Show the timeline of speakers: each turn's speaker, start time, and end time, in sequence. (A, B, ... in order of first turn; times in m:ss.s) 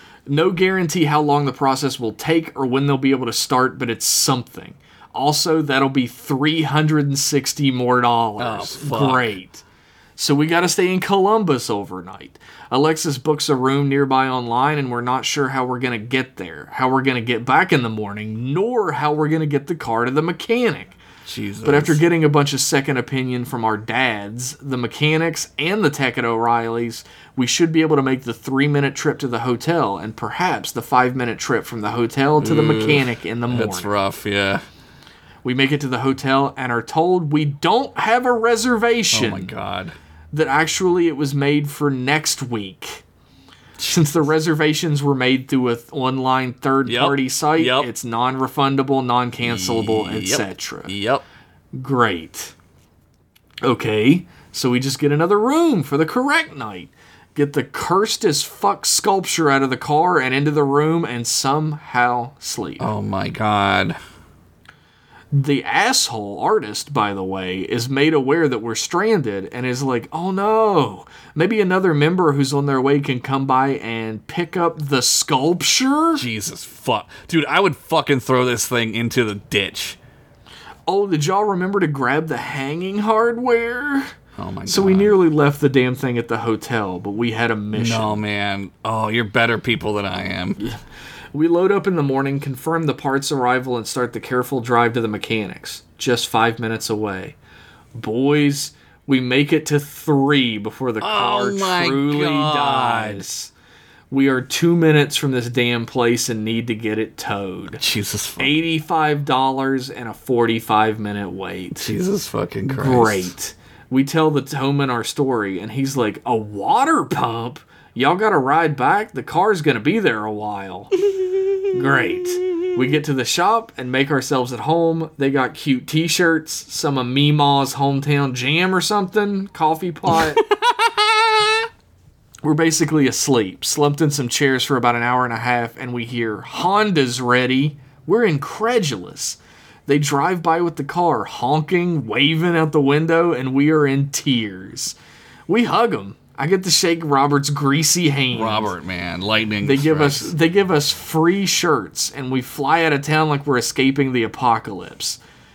0:00.3-0:09.6 A
0:08.4-0:09.3 B
0:10.2-0:21.0 A
0:21.2-0:22.0 B
0:21.6-0:33.9 A
0:32.4-0:34.6 B
0:35.4-0:39.5 A
0:39.1-0:39.9 B
0:40.3-0:43.0 A
0:43.8-0:50.9 A
0:46.8-0:47.9 B
0:49.4-0:51.2 B
0:51.7-0:52.5 A
0:53.6-1:02.9 A
1:02.8-1:04.0 B
1:05.3-1:16.2 A
1:16.1-1:20.0 B
1:20.9-1:24.1 A
1:24.4-1:25.1 B
1:24.6-1:28.2 A
1:27.7-1:30.6 B
1:31.3-1:37.4 A
1:37.9-1:43.5 A
1:41.0-1:43.2 B
1:44.1-1:47.8 A
1:47.8-1:48.5 B
1:48.4-1:51.9 A
1:51.7-1:53.3 B
1:52.7-2:00.9 A
2:01.7-2:10.4 A
2:10.1-2:11.6 B
2:12.4-2:24.9 A
2:25.5-2:28.7 A
2:28.3-2:30.3 B
2:29.6-2:35.2 A